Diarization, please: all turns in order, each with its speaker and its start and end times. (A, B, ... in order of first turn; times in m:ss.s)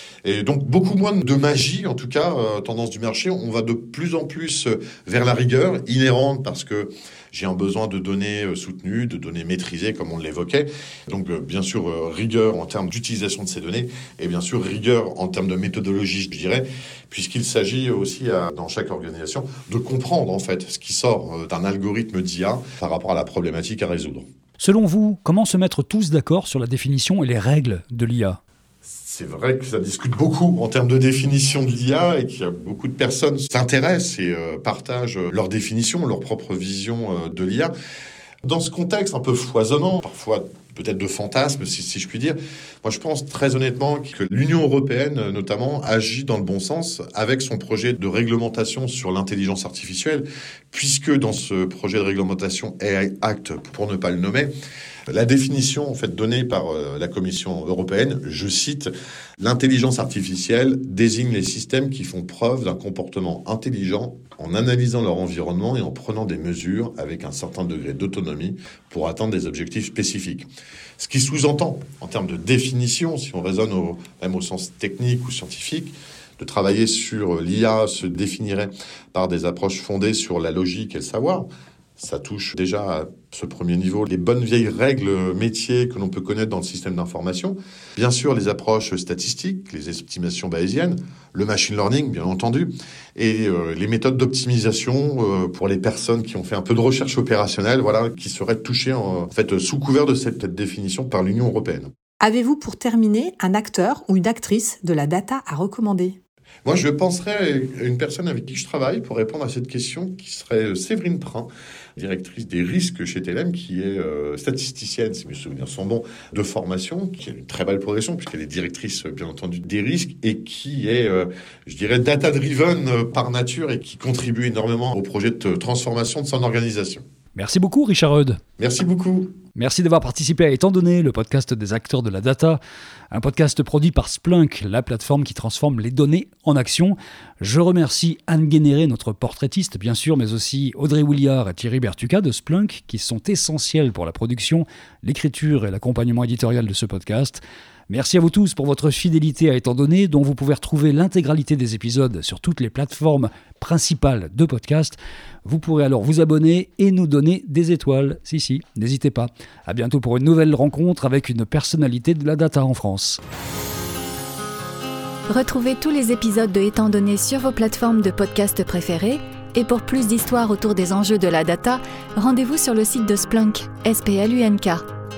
0:00.2-0:24.3 A
0:24.6-0:28.4 B
0:28.8-0:37.7 A
0:38.4-0:54.5 A
0:55.1-1:10.5 A
1:11.0-1:41.9 A
1:42.2-1:46.2 C
1:46.6-2:07.0 A
2:07.4-2:08.4 B
2:08.6-2:09.3 A
2:09.6-2:12.6 B
2:13.1-2:43.2 B
2:45.3-2:54.9 D